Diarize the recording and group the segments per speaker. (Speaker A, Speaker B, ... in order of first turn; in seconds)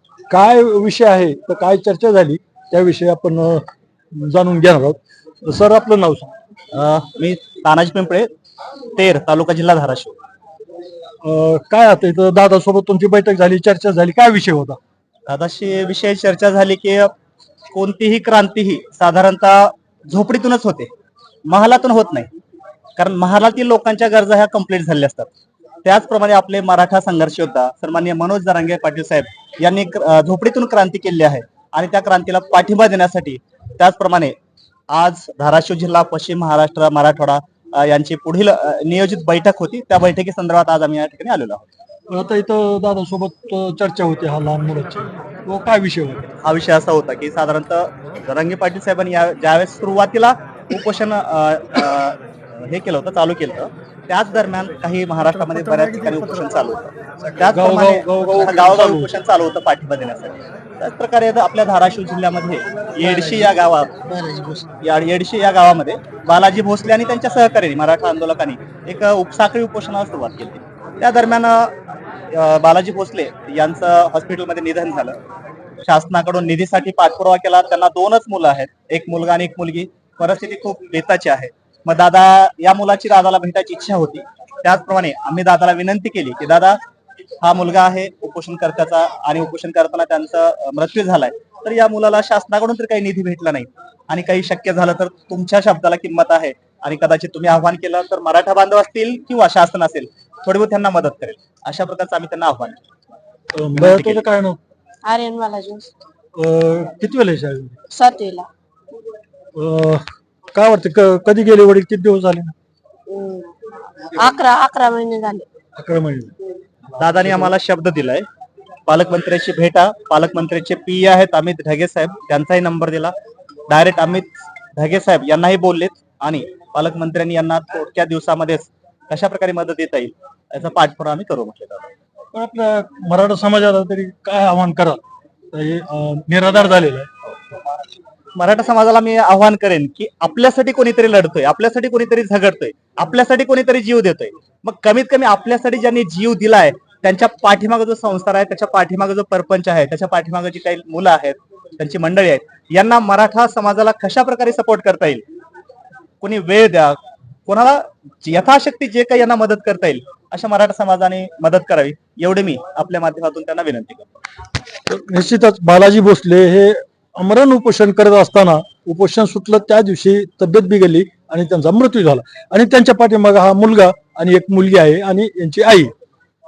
Speaker A: 0.3-6.3, 11.2-14.8, 42.1-46.3, 57.5-59.1, 103.5-104.6, 106.3-107.8, 109.5-112.5, 115.8-116.3, 132.3-135.0, 135.5-137.1, 164.9-175.9
Speaker B: 6.7-8.3, 9.0-10.2, 15.3-17.1, 17.7-20.9, 21.5-22.3, 23.0-25.3, 25.8-34.4, 34.9-41.7, 46.4-64.1, 64.8-71.7, 72.3-75.2, 75.8-86.8, 87.4-102.8, 103.8-104.3, 117.0-118.3, 118.9-123.1, 123.7-131.9, 138.3-155.2, 156.2-164.2
Speaker C: 105.0-105.9, 107.9-108.5, 113.1-115.5